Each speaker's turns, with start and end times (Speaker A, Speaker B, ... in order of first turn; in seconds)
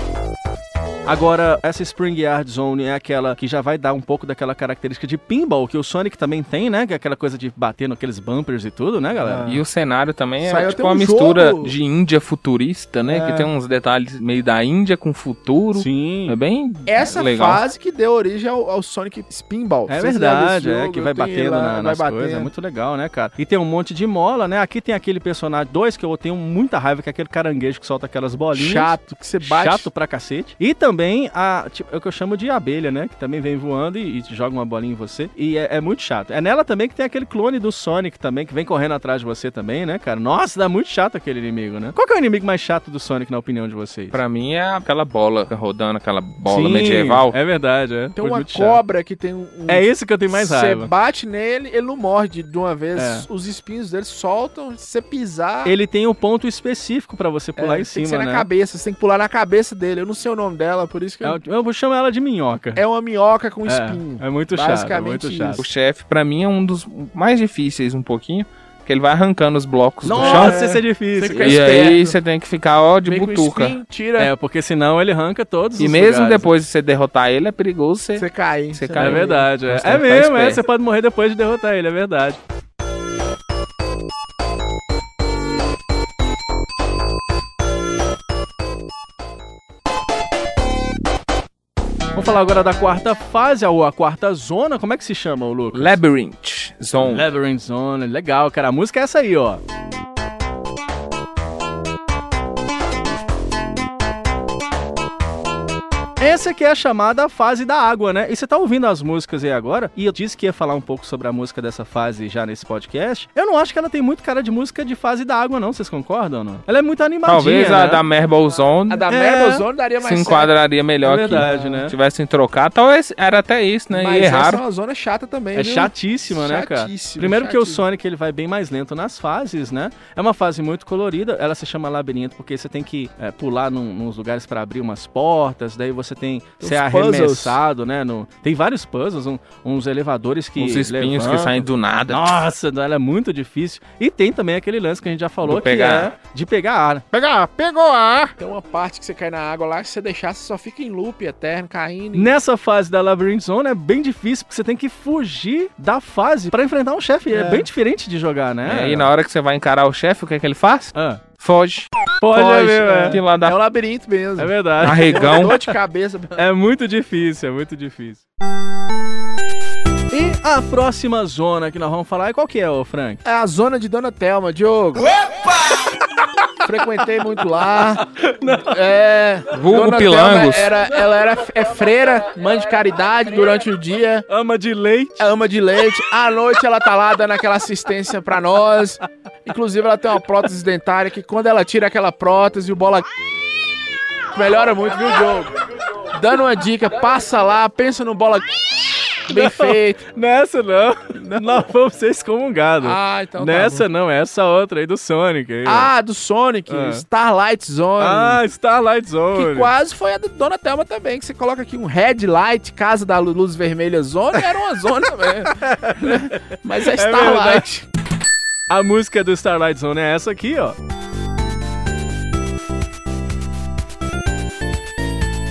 Speaker A: 1.1-9.5, 15.7-16.3, 19.9-44.2, 46.5-48.8, 49.7-50.9, 53.0-53.2, 55.6-58.5, 61.2-62.8, 63.6-65.6, 70.0-71.9, 74.2-76.5, 79.0-82.4, 92.2-96.0, 97.0-99.6, 106.2-118.0, 119.1-119.6, 121.0-121.9, 125.5-147.0, 152.1-159.1, 160.9-161.2, 162.2-163.2, 164.4-165.5, 166.4-168.2, 170.1-173.2, 178.2-178.7, 184.3-185.2, 199.3-205.9, 206.7-207.0, 208.0-209.7, 215.6-217.7, 218.7-220.8
Speaker B: 9.2-9.6, 10.4-11.7, 13.1-13.5, 16.9-22.5, 28.5-29.9, 48.1-55.7, 57.6-61.4, 62.8-65.6, 70.1-72.2, 73.0-74.3, 78.2-79.4, 118.8-120.5, 121.5-121.8, 123.9-127.8, 136.6-137.6, 148.4-152.3, 157.3-157.6, 162.3-166.4, 173.2-175.1, 176.6-184.2, 185.2-193.1, 194.3-195.6, 196.1-198.5, 199.2-200.0, 201.1-201.6, 202.8-203.9, 205.6-208.4, 209.3-217.9
Speaker C: 9.5-17.6, 44.1-47.3, 65.6-70.6, 71.4-73.8, 75.8-80.6, 95.7-97.3, 117.2-119.0, 120.0-124.6, 140.6-142.5, 145.4-146.1, 147.1-148.3, 158.6-161.9, 163.1-163.6, 164.8-165.6, 179.5-180.8